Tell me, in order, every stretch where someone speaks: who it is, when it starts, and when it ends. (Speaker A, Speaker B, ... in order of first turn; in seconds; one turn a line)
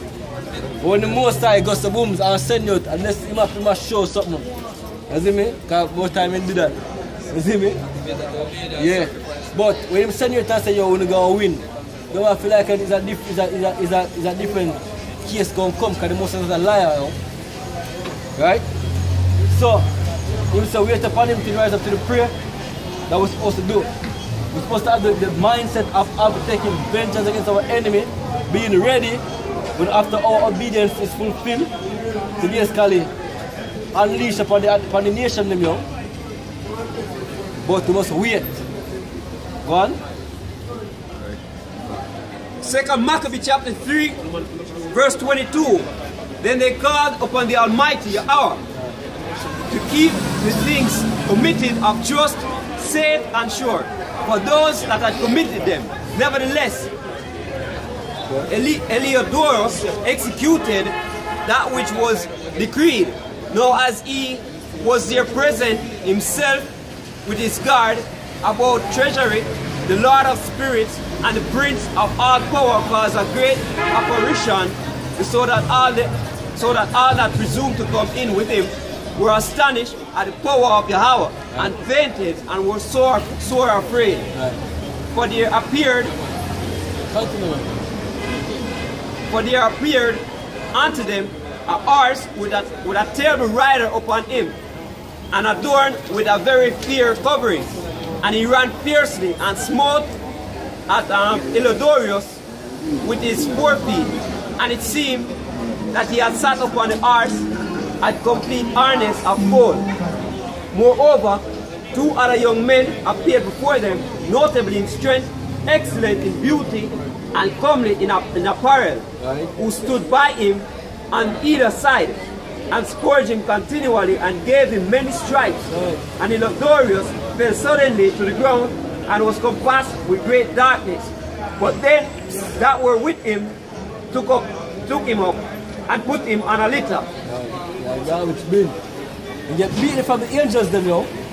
Speaker A: 0.8-4.5
Speaker A: 5.1-6.8
Speaker A: 7.3-7.8
Speaker A: 8.7-17.1
Speaker A: 18.4-18.6
Speaker A: 19.5-19.9
Speaker A: 20.5-22.3
Speaker A: 23.1-23.9
Speaker A: 24.5-29.2
Speaker A: 29.8-31.7
Speaker A: 32.4-33.1
Speaker A: 33.9-35.8
Speaker A: 37.6-38.6
Speaker A: 39.6-40.0
Speaker B: 42.6-44.2
Speaker B: 44.9-45.9
Speaker B: 46.4-48.6
Speaker B: 49.7-56.9
Speaker B: 58.5-66.7
Speaker B: 67.2-84.3
Speaker B: 85.1-86.2
Speaker A: 87.1-87.7
Speaker B: 89.3-94.6
Speaker B: 95.3-100.1
Speaker B: 100.9-102.4
Speaker B: 103.0-105.3
Speaker B: 105.9-107.5
Speaker B: 108.0-109.9
Speaker B: 110.7-133.6
Speaker A: 119.2-119.5
Speaker A: 125.7-126.0
Speaker B: 134.1-137.1
Speaker A: 137.2-138.8
Speaker A: 139.5-141.1